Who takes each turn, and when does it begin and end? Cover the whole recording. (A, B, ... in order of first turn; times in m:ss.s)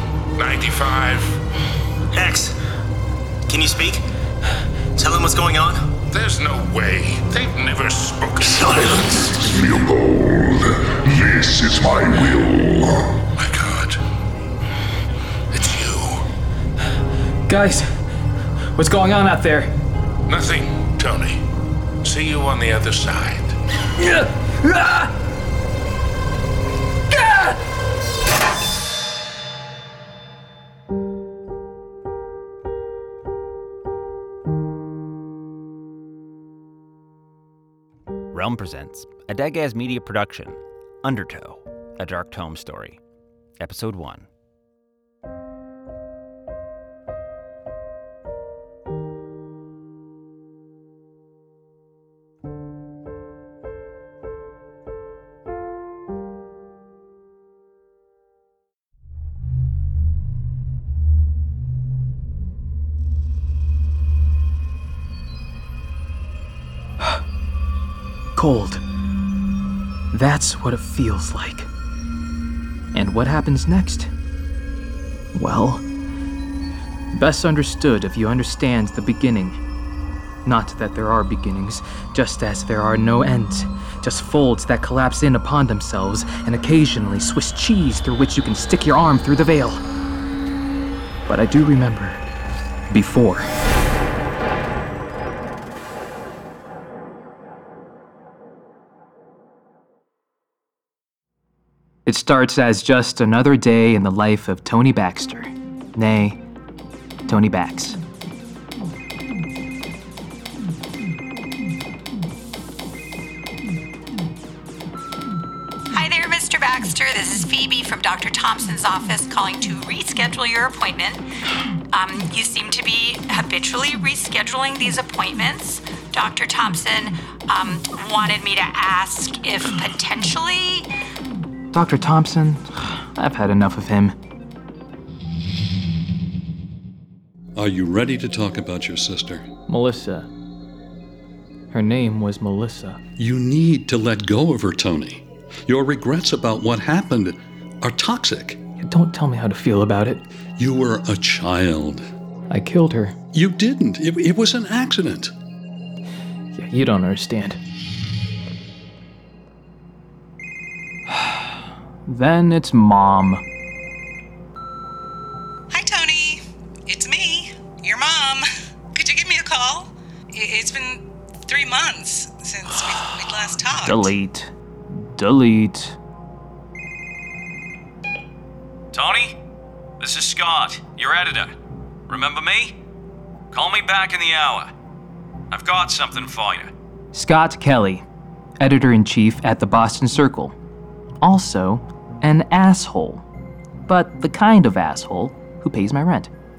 0:00.4-0:01.4 A
0:02.1-0:02.6 B
0:03.5-0:04.0 B
0:05.0-0:05.8 B
0:06.1-0:09.3 A
0:08.6-0:13.2 C
0:13.3-0:14.0 A
0:15.5-0:16.2 A
0:17.5-0:17.9 D
0:18.8-0:19.7 D
0:20.3-0:21.4 A
0:22.0-0:23.6 A
0:24.0-0:25.1 D
0:27.2-0:27.5 D
0:38.3-0:43.0 E
0:43.6-0:44.3 E
1:08.4-1:08.8 D
1:10.1-1:11.7 D
1:12.9-1:14.1 D
1:15.3-1:15.8 D
1:17.1-1:19.6 D
1:20.4-1:29.8 D
1:31.3-1:32.2 D
1:32.9-1:33.5 D
1:42.1-1:46.4 D
1:47.3-1:48.0 D
1:55.9-2:01.2 F
2:01.9-2:10.9 F
2:11.7-2:14.2 D
2:17.6-2:19.5 G
2:19.7-2:20.3 D
2:21.7-2:23.0 D
2:23.2-2:28.6 G
2:28.8-2:30.2 D
2:30.6-2:32.1 G
2:32.5-2:33.2 D
2:33.3-2:35.3 G
2:36.5-2:37.6 D
2:41.1-2:41.5 D
2:42.1-2:43.4 D
2:45.7-2:54.1 H
2:53.8-2:56.0 D
2:58.9-2:59.4 I
3:00.0-3:01.5 I
3:02.1-3:02.8 I
3:03.5-3:04.7 I
3:05.5-3:06.7 I
3:07.1-3:08.0 D
3:08.6-3:10.6 D
3:11.2-3:13.2 D
3:13.9-3:16.3 D